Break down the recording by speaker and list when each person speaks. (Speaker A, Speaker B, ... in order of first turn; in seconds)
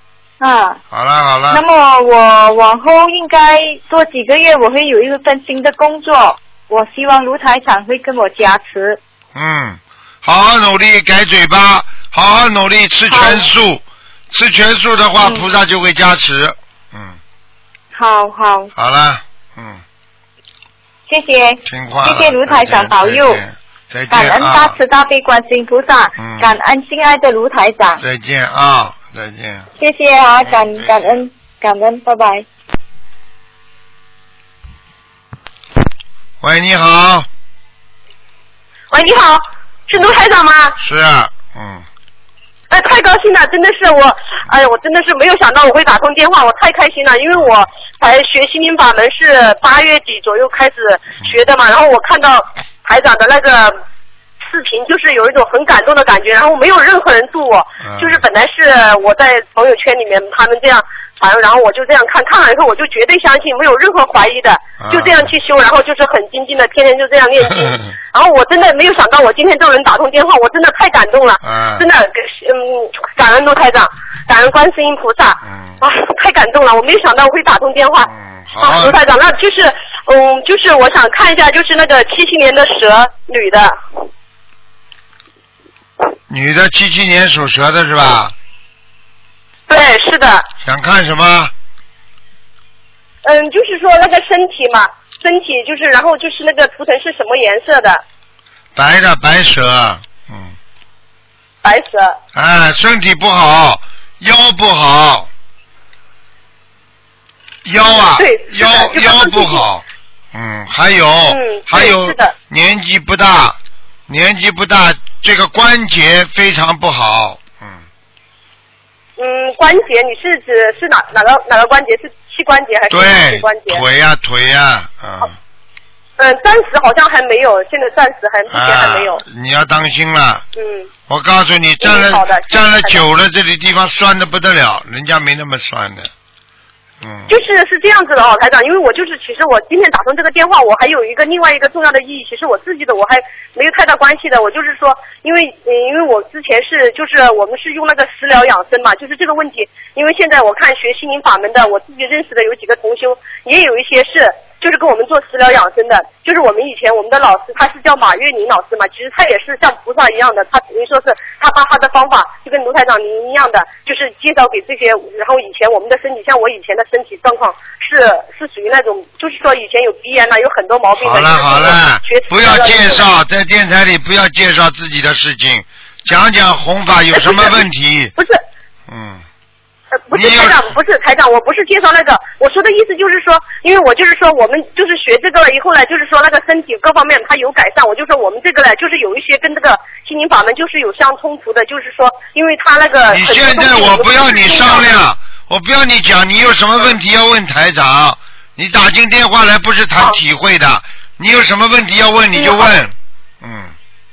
Speaker A: 0.4-0.8, 1.5-9.0, 13.1-13.5, 15.2-15.5, 17.9-18.7, 21.1-23.4, 24.1-28.0, 29.8-32.5
Speaker B: 0.9-1.6, 9.3-17.2, 18.8-19.8, 21.7-24.8, 26.2-26.5, 28.0-29.7, 30.4-31.2, 36.4-37.3, 40.8-41.9, 57.8-58.2, 64.8-65.3, 71.4-71.9, 75.4-75.8, 78.1-79.0, 86.3-88.3, 90.6-91.5, 98.8-100.5, 102.3-105.3, 107.7-117.8, 122.9-125.3, 128.5-130.4, 131.1-136.1, 137.0-137.4, 171.0-178.1, 178.9-179.2, 180.1-180.6, 193.1-203.7
Speaker C: 38.9-40.8, 42.7-53.8, 54.4-83.8, 89.7-90.5, 93.2-98.0, 101.6-102.2, 107.8-109.7, 111.3-112.3, 119.2-123.8, 126.2-129.2, 130.6-130.9, 131.8-133.0, 137.3-173.1, 177.1-177.6, 178.2-178.4, 180.1-194.9, 202.3-202.7